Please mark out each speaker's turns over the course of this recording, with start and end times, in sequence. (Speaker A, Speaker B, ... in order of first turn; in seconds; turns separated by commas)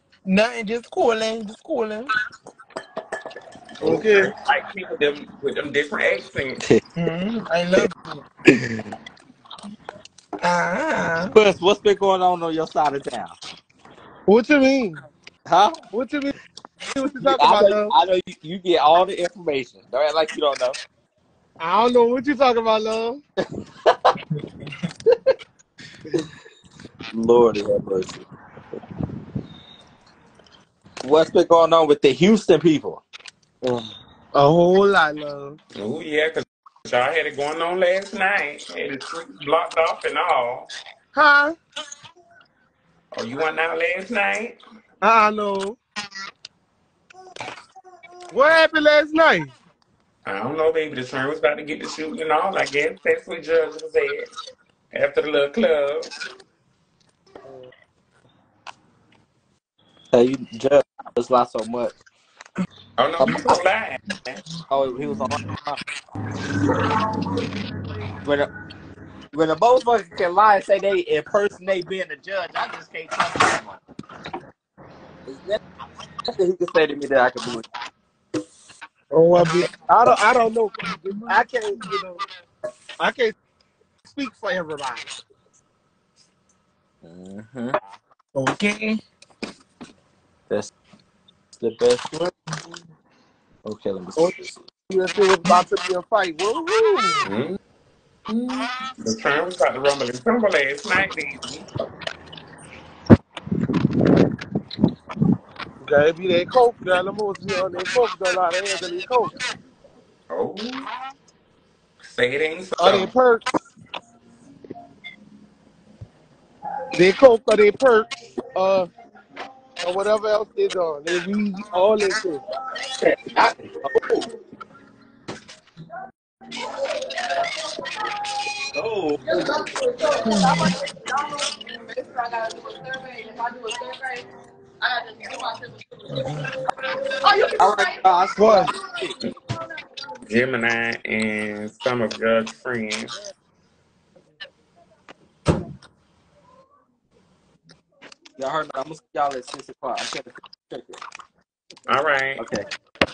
Speaker A: 0.2-2.1, Speaker B: 3.8-6.6, Speaker C: 3.8-4.3, Speaker A: 7.0-8.2, Speaker D: 8.5-8.8, Speaker A: 10.4-11.3, Speaker D: 11.3-13.3, Speaker C: 14.3-15.0, Speaker D: 15.5-15.8, Speaker C: 15.9-16.3, Speaker C: 16.9-17.9, Speaker D: 17.2-20.8, Speaker C: 21.6-23.2, Speaker D: 27.1-28.2, Speaker D: 31.0-33.0, Speaker C: 34.3-35.6, Speaker B: 35.8-40.7, Speaker C: 41.1-41.5, Speaker B: 43.1-44.6, Speaker C: 45.0-45.8, Speaker C: 48.3-49.5, Speaker B: 50.2-54.3, Speaker B: 54.9-56.1, Speaker D: 60.1-62.0, Speaker B: 63.0-64.4, Speaker D: 63.2-63.6, Speaker D: 64.7-65.8, Speaker D: 68.2-68.5, Speaker D: 69.3-73.8, Speaker D: 75.2-75.6, Speaker D: 76.3-77.7, Speaker C: 79.1-82.2, Speaker C: 83.0-83.3, Speaker C: 84.1-85.1, Speaker D: 87.0-87.7, Speaker A: 88.3-89.0, Speaker D: 91.6-92.3, Speaker D: 93.6-94.6, Speaker C: 94.9-97.2, Speaker B: 97.2-97.6, Speaker B: 98.3-101.6, Speaker C: 105.8-109.3, Speaker B: 110.3-110.9, Speaker B: 112.0-113.1, Speaker C: 112.8-113.4, Speaker C: 117.0-118.9, Speaker C: 119.8-122.4, Speaker D: 123.0-124.3, Speaker D: 128.7-129.2, Speaker A: 130.2-130.7, Speaker A: 136.1-136.5, Speaker D: 137.6-139.1, Speaker B: 140.3-143.1, Speaker D: 148.4-151.0, Speaker B: 151.9-152.4, Speaker D: 152.4-152.6